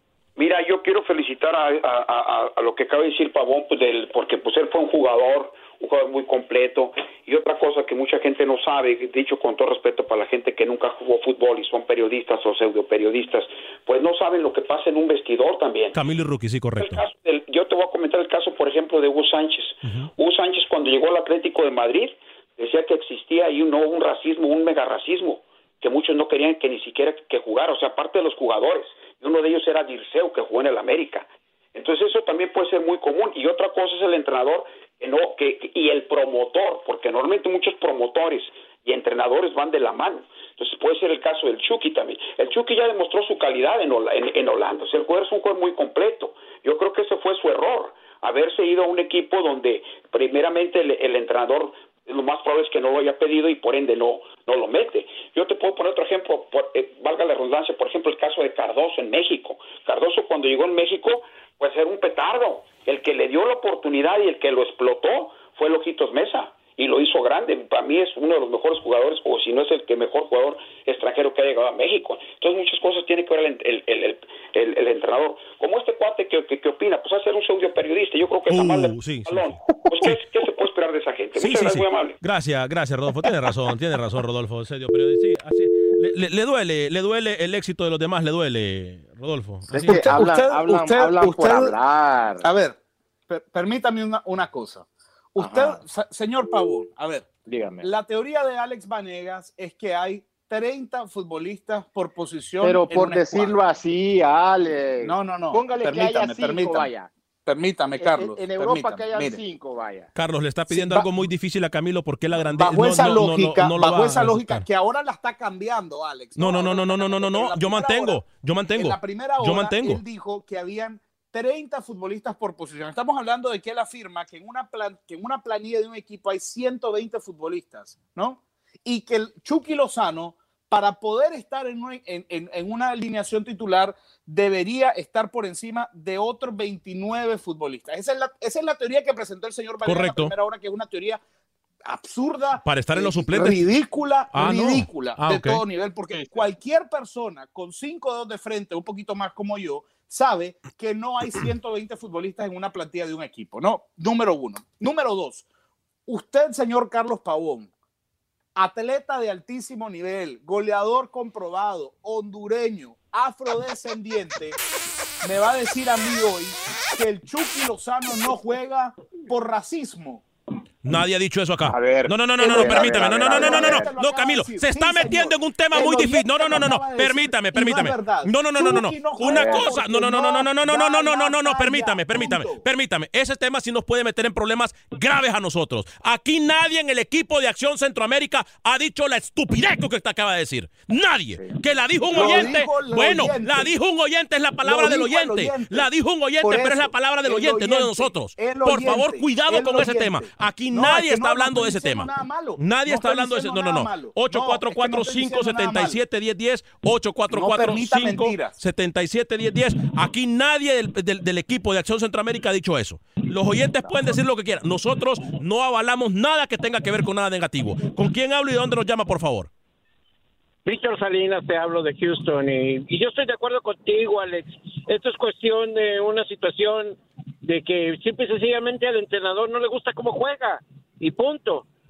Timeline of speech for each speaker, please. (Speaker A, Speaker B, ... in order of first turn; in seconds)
Speaker A: 0.3-16.0, 16.8-82.2
Speaker B: 15.9-17.0, 19.8-20.1, 78.5-80.2, 81.3-90.2, 110.1-114.6, 116.4-120.0, 139.8-140.3, 142.6-143.6, 144.3-145.6, 170.8-219.5
Speaker C: 89.7-92.5, 95.4-95.8, 97.5-97.9, 102.6-107.1, 108.0-110.1, 171.6-173.9, 179.2-179.7, 192.1-192.5
Speaker D: 89.8-91.8, 92.4-92.8, 93.3-97.3, 97.8-103.6, 105.0-106.9, 107.5-109.4, 110.7-111.1, 112.5-118.2, 118.8-141.2, 141.8-155.4, 156.1-157.7, 158.6-164.6, 165.2-170.2, 172.4-182.6, 192.1-193.7, 194.6-195.9, 196.4-206.0, 207.3-208.6
Speaker E: 220.6-231.7